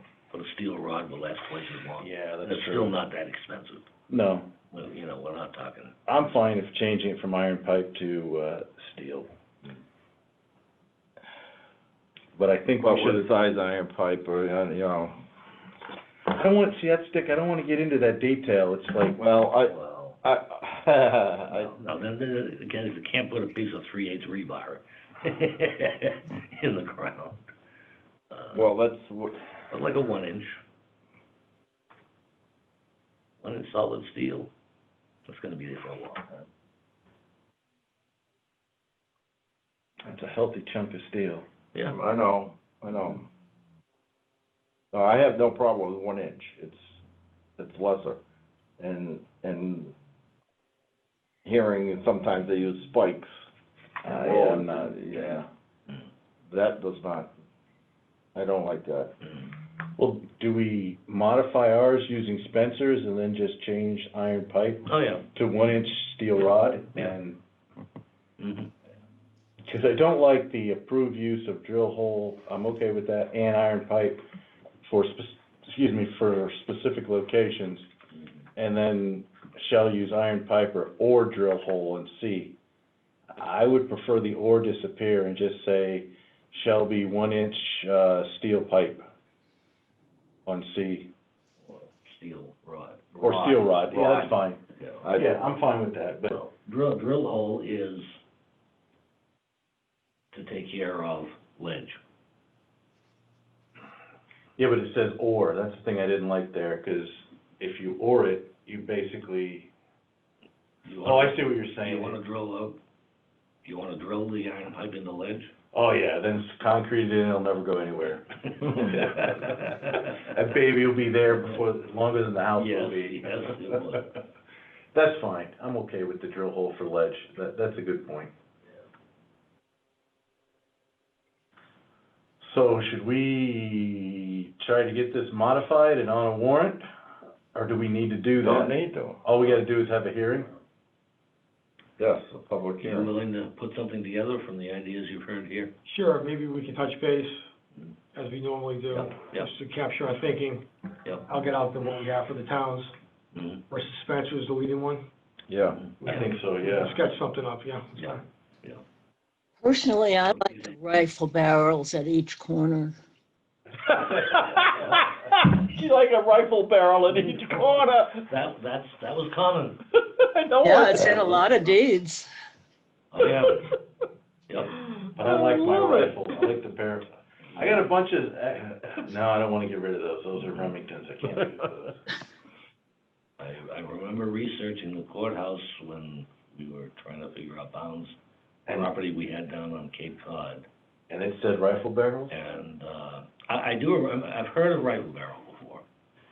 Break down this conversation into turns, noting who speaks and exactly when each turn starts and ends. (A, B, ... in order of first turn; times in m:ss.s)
0:00.3-0:03.9 A
0:02.0-0:03.0 B
0:04.1-0:04.5 B
0:04.7-0:05.9 A
0:06.1-0:09.3 B
0:12.4-0:13.3 B
0:12.8-0:15.2 C
0:16.3-0:19.2 B
0:19.2-0:21.8 C
0:19.6-0:20.2 A
0:21.6-0:27.5 A
0:28.3-0:28.7 A
0:28.5-0:29.4 C
0:29.7-0:30.5 A
0:33.4-0:34.5 A
0:35.3-0:36.3 A
0:40.0-0:41.4 B
0:41.9-0:43.3 C
0:44.9-0:46.9 C
0:47.6-0:48.2 C
0:48.8-0:49.9 C
0:51.4-0:53.3 C
0:54.0-0:55.4 B
0:54.1-0:55.5 C
0:56.5-0:57.3 C
0:58.4-0:59.1 C
1:00.0-1:07.4 B
1:04.9-1:05.3 A
1:08.4-1:08.7 A
1:09.7-1:14.2 B
1:14.8-1:17.9 B
1:18.6-1:22.6 B
1:23.4-1:29.1 B
1:30.5-1:31.1 B
1:31.6-1:33.5 A
1:33.2-1:34.6 B
1:33.2-1:34.3 C
1:34.8-1:35.1 A
1:35.0-1:35.4 C
1:35.1-1:36.4 B
1:36.3-1:38.1 A
1:40.3-1:42.0 A
1:44.6-1:49.7 B
1:50.8-1:52.8 A
1:51.0-1:52.2 B
1:53.6-1:55.5 A
1:55.7-2:03.8 B
1:58.7-2:00.1 A
2:02.6-2:04.1 A
2:04.9-2:08.3 B
2:12.4-2:16.8 B
2:17.5-2:20.5 B
2:18.4-2:19.2 C
2:22.0-2:23.1 C
2:22.8-2:25.7 A
2:25.9-2:27.4 D
2:28.1-2:30.7 D
2:28.9-2:29.5 A
2:31.0-2:31.3 A
2:31.3-2:32.9 D
2:33.3-2:33.6 A
2:33.7-2:35.1 D
2:35.5-2:35.8 C
2:35.8-2:36.3 A
2:36.0-2:37.0 B
2:36.6-2:38.2 D
2:38.0-2:38.8 A
2:39.6-2:43.0 E
2:40.2-2:40.8 A
2:43.9-2:48.3 C
2:47.2-2:49.9 A
2:50.1-2:51.5 C
2:50.6-2:52.3 E
2:50.9-2:51.4 A
2:53.1-2:53.7 A
2:54.5-2:54.8 A
2:55.2-3:02.0 B
2:55.2-2:56.2 C
3:03.4-3:08.2 A
3:08.7-3:10.7 A
3:11.1-3:12.4 B
3:12.3-3:15.8 A